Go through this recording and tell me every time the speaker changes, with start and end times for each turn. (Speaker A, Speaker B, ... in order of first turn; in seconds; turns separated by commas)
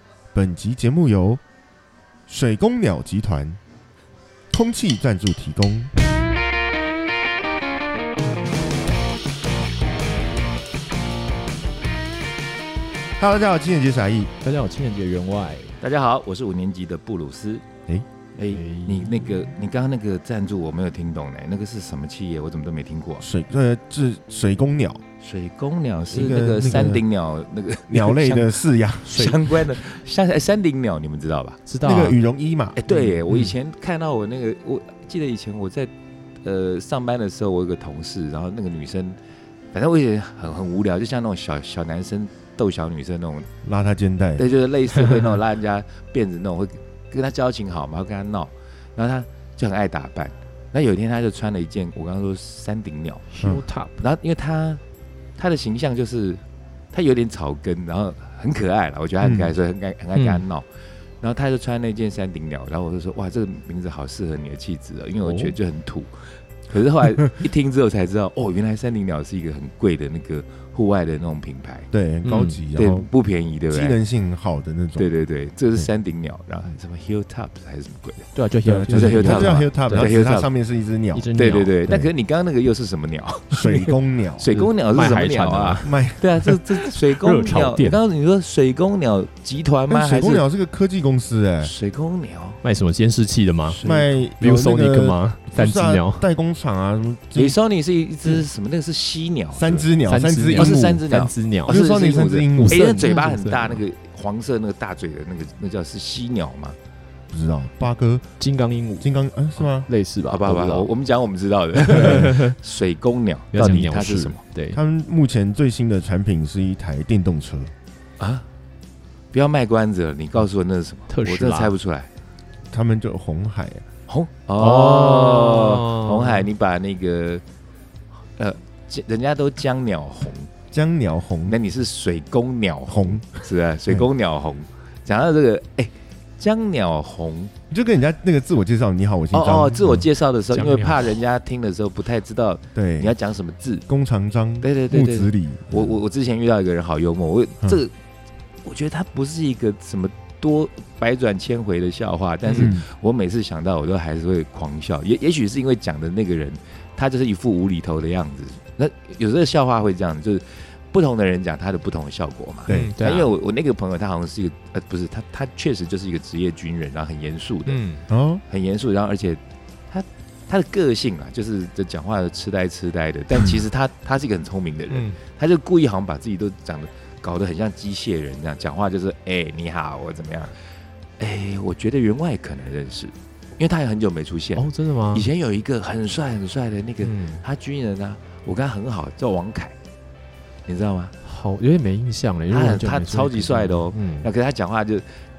Speaker A: 0.3-1.4, Speaker A: 2.3-3.6, Speaker A: 4.5-5.9, Speaker A: 13.2-14.3, Speaker B: 14.4-15.8, Speaker C: 15.8-17.6, Speaker C: 18.4-23.2, Speaker B: 18.5-19.4, Speaker A: 23.2-25.0, Speaker C: 25.2-28.5, Speaker A: 26.1-27.0, Speaker A: 27.9-29.1, Speaker C: 29.0-31.6, Speaker B: 29.1-29.5, Speaker B: 31.7-32.2, Speaker A: 31.8-32.8, Speaker C: 32.8-35.9, Speaker C: 36.4-39.2, Speaker C: 39.7-43.5, Speaker A: 43.6-44.5, Speaker C: 44.4-53.3, Speaker B: 45.0-45.3, Speaker B: 53.3-54.0, Speaker A: 53.4-53.6, Speaker C: 54.0-54.8, Speaker C: 55.4-60.7, Speaker A: 59.2-59.5, Speaker B: 60.2-60.4, Speaker C: 61.2-66.1, Speaker B: 65.2-65.5, Speaker C: 66.7-71.9, Speaker A: 71.9-73.1, Speaker B: 72.2-72.6, Speaker C: 72.7-74.0, Speaker A: 73.7-75.1, Speaker C: 75.0-78.3, Speaker B: 78.3-80.2, Speaker A: 78.7-81.3, Speaker C: 78.9-80.5, Speaker B: 81.1-81.8, Speaker C: 81.3-90.5, Speaker A: 83.5-84.5, Speaker B: 84.5-86.1, Speaker A: 85.8-86.5, Speaker B: 87.1-88.0, Speaker A: 89.9-91.7, Speaker C: 91.6-92.6, Speaker B: 92.6-93.8, Speaker C: 93.7-94.2, Speaker A: 93.8-97.6, Speaker B: 94.4-96.2, Speaker C: 97.3-99.9, Speaker A: 99.5-101.0, Speaker B: 100.1-101.8, Speaker C: 100.5-106.8, Speaker A: 101.7-103.1, Speaker B: 102.5-103.8, Speaker A: 107.3-108.3, Speaker B: 108.4-109.1, Speaker A: 109.0-109.9, Speaker B: 109.8-110.9, Speaker C: 110.3-114.4, Speaker B: 111.8-112.6, Speaker A: 111.9-112.4, Speaker B: 113.5-114.8, Speaker A: 114.7-117.7, Speaker C: 118.2-118.5, Speaker C: 119.3-122.1, Speaker B: 121.1-121.7, Speaker A: 122.7-123.8, Speaker C: 124.1-127.4, Speaker B: 124.6-126.5, Speaker C: 128.4-130.5, Speaker A: 130.7-131.6, Speaker C: 131.5-137.5, Speaker A: 132.9-134.1, Speaker A: 137.7-140.0, Speaker C: 139.3-143.9, Speaker B: 140.5-141.2, Speaker A: 142.8-143.1, Speaker A: 143.9-146.0, Speaker C: 144.6-147.9, Speaker C: 148.7-167.8, Speaker B: 152.5-152.7, Speaker A: 152.6-152.8, Speaker A: 162.7-162.9, Speaker B: 162.7-163.3, Speaker B: 167.7-168.1, Speaker A: 168.1-168.4, Speaker C: 168.5-180.6, Speaker A: 173.3-173.6, Speaker B: 174.9-175.2, Speaker C: 181.2-189.8, Speaker B: 184.6-185.3, Speaker B: 187.0-187.4, Speaker C: 190.7-191.1, Speaker B: 191.2-194.3, Speaker C: 192.5-195.1